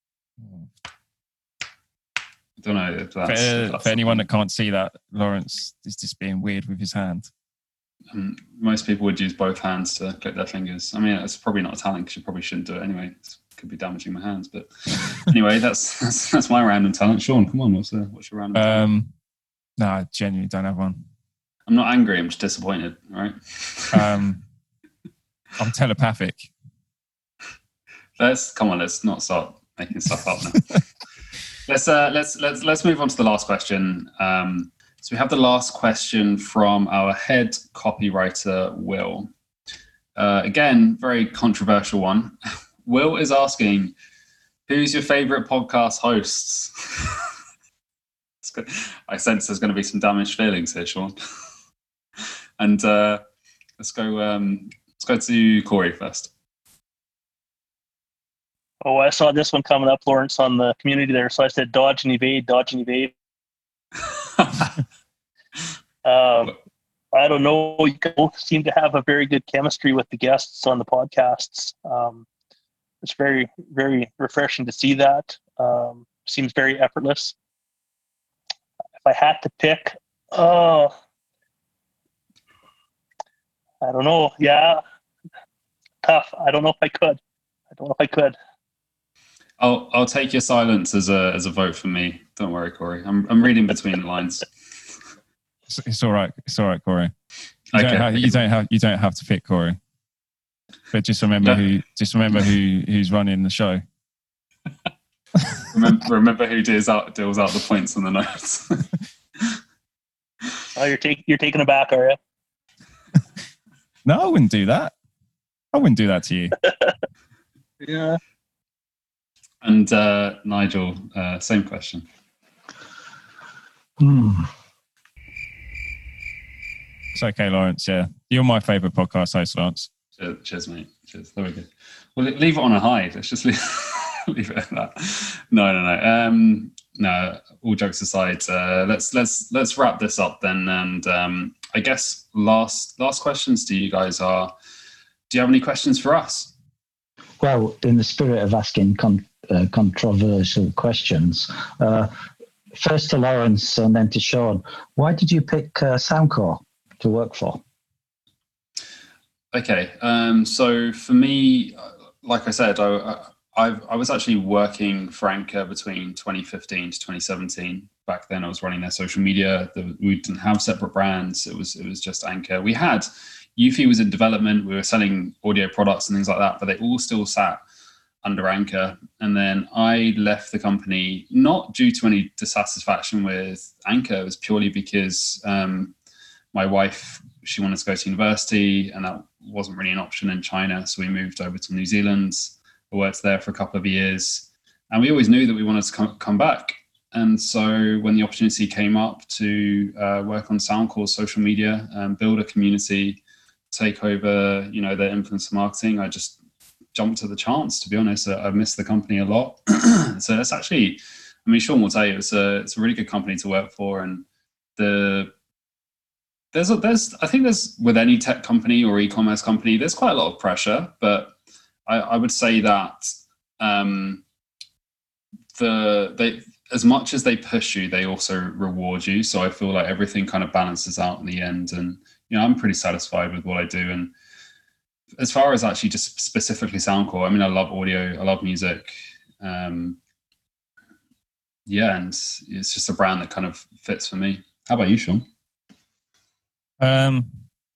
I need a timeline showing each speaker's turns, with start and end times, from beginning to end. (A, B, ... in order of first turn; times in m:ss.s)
0:02.6-0:04.3 A
0:03.3-0:07.3 B
0:08.1-0:18.8 A
0:18.6-0:19.1 B
0:19.8-0:21.0 B
0:21.7-0:24.1 A
0:23.9-0:24.4 B
0:25.6-0:26.5 B
0:28.2-0:30.8 A
0:31.7-0:39.3 A
0:40.2-0:44.0 A
0:44.7-0:47.2 A
0:48.4-0:51.2 A
0:52.6-0:53.2 A
0:53.8-0:56.3 A
0:58.8-1:03.2 C
1:04.4-1:04.7 A
1:06.0-1:06.6 C
1:07.1-1:12.3 C
1:13.0-1:17.4 C
1:19.0-1:20.9 C
1:23.8-1:24.8 C
1:26.0-1:27.2 C
1:27.7-1:28.4 C
1:29.6-1:34.5 A
1:35.7-1:37.1 B
1:37.7-1:38.4 A
1:37.8-1:39.8 B
1:40.9-1:43.8 B
1:45.7-1:48.9 A
1:50.8-1:52.2 C
1:54.0-1:54.9 B
1:55.7-1:56.6 B
1:57.8-1:58.2 C
1:59.6-2:02.1 A
2:04.0-2:04.5 D
2:07.2-2:09.9 B
2:10.2-2:24.5 A
2:25.3-2:26.5 A
2:27.4-2:32.1 D
2:32.7-2:37.6 D
2:39.5-2:57.6 A
2:58.2-3:06.0 A
3:06.5-3:23.2 A
3:23.7-3:26.4 A
3:26.9-3:34.2 A
3:34.8-3:35.3 A
3:36.5-3:41.4 A
3:41.9-3:44.2 A
3:45.5-3:54.1 A
3:55.2-4:00.0 A
4:01.7-4:05.3 A
4:06.8-4:07.4 B